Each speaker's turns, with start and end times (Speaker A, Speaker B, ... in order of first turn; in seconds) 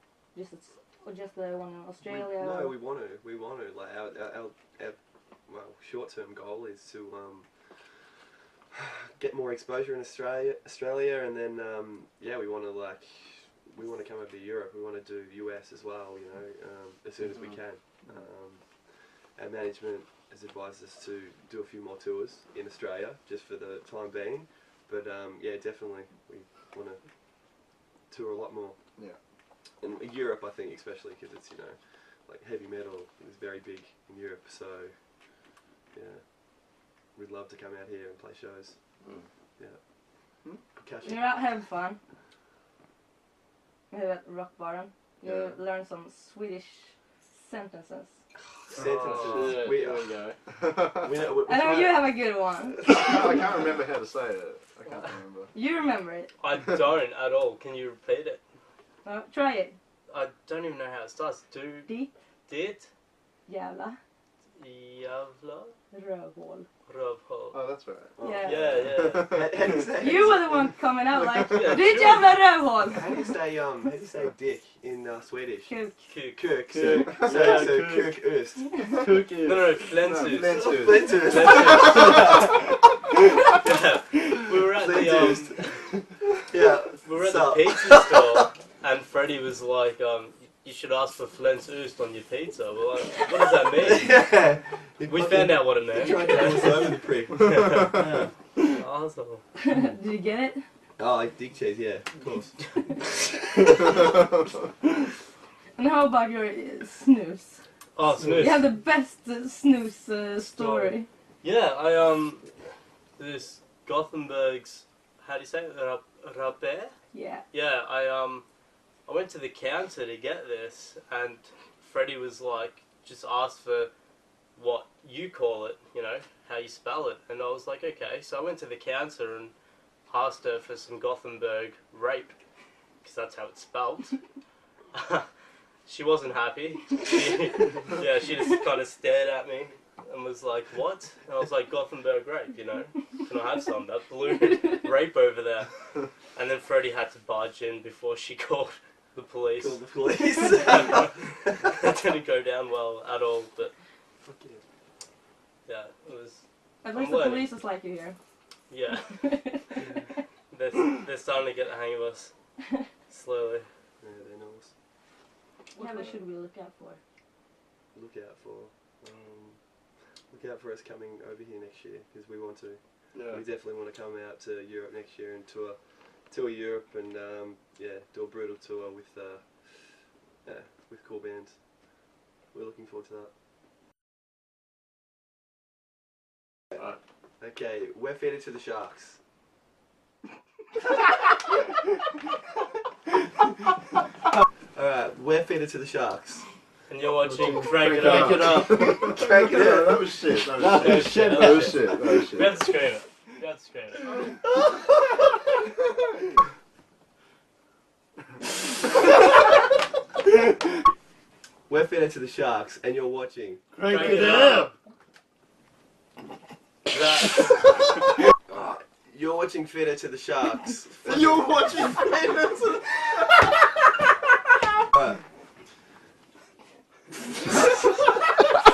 Speaker A: 0.3-2.8, 41.0-42.0, 43.9-48.2, 51.5-52.9, 55.5-56.3, 59.0-59.8, 61.9-62.1, 63.5-64.0, 65.9-66.7, 68.2-68.8, 70.0-73.2, 75.7-76.0, 99.6-100.6, 105.8-107.6, 108.4-111.1, 117.1-117.5, 156.8-158.2, 159.2-160.0, 165.7-167.0
Speaker B: 2.0-7.5, 8.7-18.6, 19.4-27.0, 28.1-28.8, 29.8-34.9, 35.9-36.2, 37.1-38.8, 40.8-41.4, 48.6-52.1, 68.2-70.8, 72.9-75.7, 76.3-79.0, 80.3-82.8, 84.8-88.5, 93.8-98.3, 101.0-102.6, 149.6-151.4, 154.2-154.6, 159.8-160.1, 164.0-164.7, 167.9-169.6, 170.3-175.8, 176.3-181.6, 182.5-183.3, 187.4-189.2, 194.8-196.5, 198.8-200.5, 201.2-201.9, 211.7-213.6, 218.5-222.1, 224.9-225.2
Speaker C: 45.2-45.6, 50.6-51.1, 52.8-55.5, 67.5-68.2, 68.9-69.5, 79.9-82.0, 197.2-202.7, 221.1-223.4
Speaker D: 48.8-49.7, 56.4-58.4, 60.1-61.9, 62.5-62.9, 64.6-65.8, 66.9-67.6, 68.4-69.4, 71.4-72.4, 76.1-77.3, 79.4-82.7, 83.5-85.7, 87.0-94.2, 95.1-99.4, 108.0-108.7, 110.6-112.5, 113.2-117.0, 117.5-118.5, 119.1-123.9, 124.6-129.5, 130.1-132.4, 133.0-134.2, 134.9-135.3, 135.9-145.7, 146.3-149.8, 150.4-153.7, 155.7-157.5, 158.7-159.2, 160.5-162.3, 163.1-163.7, 196.9-198.9, 200.6-204.3, 213.8-214.7, 216.9-217.7
Speaker E: 49.1-50.3, 76.7-78.1, 79.0-79.7, 198.0-198.7, 200.7-201.3, 213.9-214.6